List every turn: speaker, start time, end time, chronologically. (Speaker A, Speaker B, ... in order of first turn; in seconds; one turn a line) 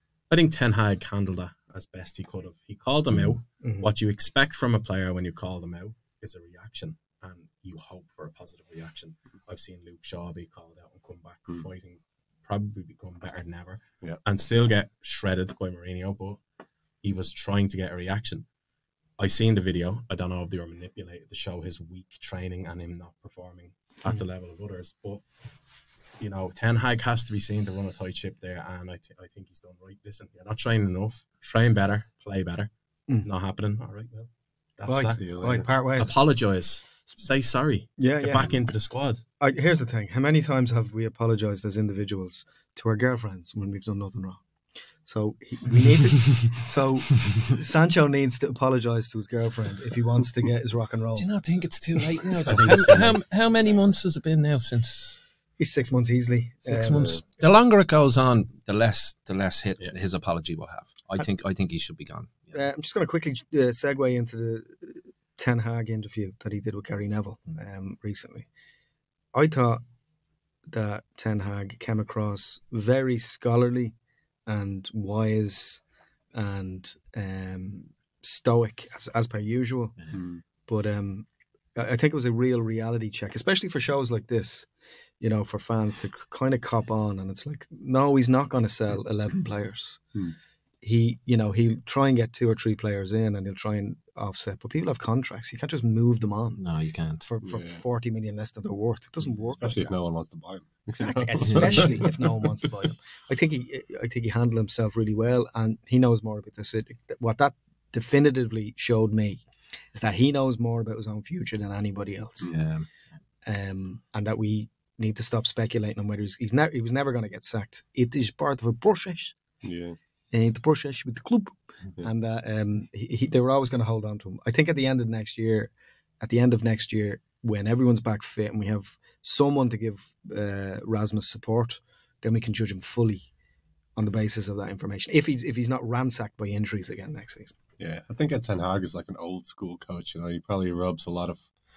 Speaker A: 0.3-16.4
Speaker B: 3.6-3.9
Speaker A: 17.0-18.4
Speaker A: 19.2-25.2
Speaker A: 26.2-32.7
Speaker A: 33.2-35.2
Speaker B: 34.9-36.1
Speaker C: 35.2-35.7
Speaker A: 36.0-39.2
Speaker B: 38.0-38.5
Speaker B: 39.4-44.4
Speaker B: 45.0-51.3
Speaker D: 51.2-55.2
Speaker A: 52.3-53.2
Speaker B: 55.6-57.5
Speaker D: 56.6-62.5
Speaker B: 62.5-68.5
Speaker B: 69.3-69.8
Speaker B: 70.7-73.9
Speaker B: 74.5-75.8
Speaker B: 76.3-80.0
Speaker C: 80.1-80.4
Speaker B: 80.7-84.7
Speaker B: 85.2-90.0
Speaker B: 90.8-96.6
Speaker D: 96.6-97.2
Speaker B: 97.2-99.9
Speaker C: 97.4-97.8
Speaker C: 99.6-102.7
Speaker B: 101.0-112.5
Speaker D: 101.5-102.0
Speaker C: 112.4-112.7
Speaker D: 112.5-112.9
Speaker B: 113.5-119.4
Speaker C: 119.6-120.0
Speaker B: 120.3-133.3
Speaker B: 134.0-137.6
Speaker C: 137.8-141.5